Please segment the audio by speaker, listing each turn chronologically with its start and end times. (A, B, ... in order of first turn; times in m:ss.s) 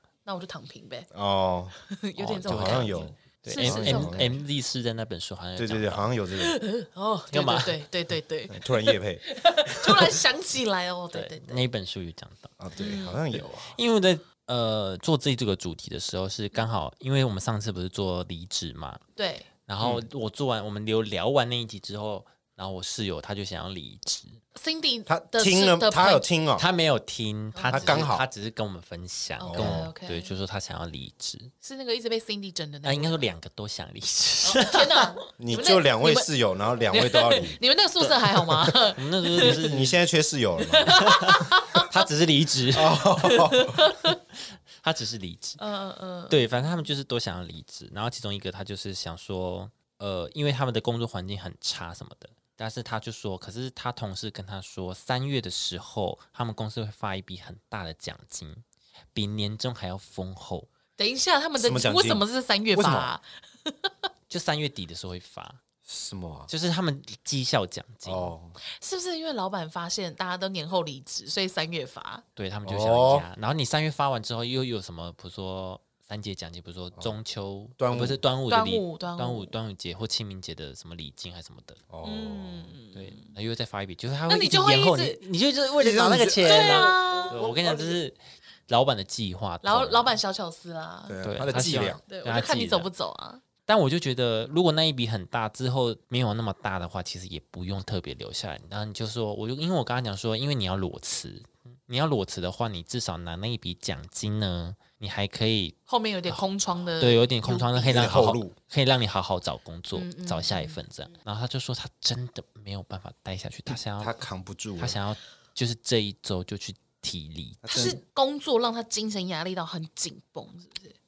0:00.3-0:01.1 A
0:01.1-0:01.8 B
0:01.9-0:04.4 A
0:02.2-0:06.1 C
0:02.4-0:04.3 B
0:05.6-0:06.5 B
0:06.4-0:11.6 A
0:07.3-0:07.8 C
0:08.5-0:09.2 B
0:11.1-0:12.5 C
0:12.6-0:13.8 B
0:12.8-0:13.2 A
0:13.4-0:19.0 C
0:19.2-0:19.5 A
0:19.7-0:24.4 C
0:24.6-0:26.2 A
0:25.1-0:26.7 B
0:26.6-0:31.5 C
0:27.5-0:28.0 A
0:27.6-0:28.2 B
0:29.4-0:30.3 A
0:29.4-0:29.9 B
0:31.6-0:33.2 A
0:32.8-0:35.2 C
0:34.4-0:36.3 A
0:35.4-0:37.6 B
0:36.9-0:39.6 A
0:38.5-0:38.8 B
0:38.9-0:40.0 C
0:39.4-0:41.1 B
0:40.6-0:41.9 A
0:40.9-0:43.1 C
0:42.8-0:43.8 B
0:43.2-0:44.2 A
0:44.8-0:45.6 C
0:45.6-0:46.4 A
0:46.3-1:00.7 C
1:01.0-1:03.9 A
1:01.6-1:03.1 B
1:04.3-1:05.6 C
1:05.9-1:06.5 B
1:06.5-1:08.3 C
1:08.0-1:08.6 B
1:08.8-1:12.2 A
1:12.4-1:21.8 C
1:12.7-1:13.3 B
1:17.8-1:18.2 B
1:18.5-1:19.5 A
1:21.9-1:22.7 B
1:22.0-1:23.3 A
1:22.9-1:30.2 C
1:24.3-1:25.2 A
1:25.8-1:28.0 B
1:26.4-1:27.4 A
1:29.6-1:33.4 A
1:31.1-1:32.0 B
1:31.2-1:32.9 C
1:33.7-1:45.8 C
1:45.9-1:48.2 A
1:47.0-1:54.2 C
1:47.8-1:48.6 B
1:49.9-1:50.8 A
1:53.7-1:55.0 B
1:54.8-1:57.9 C
1:57.6-1:58.0 B
1:57.6-2:01.0 A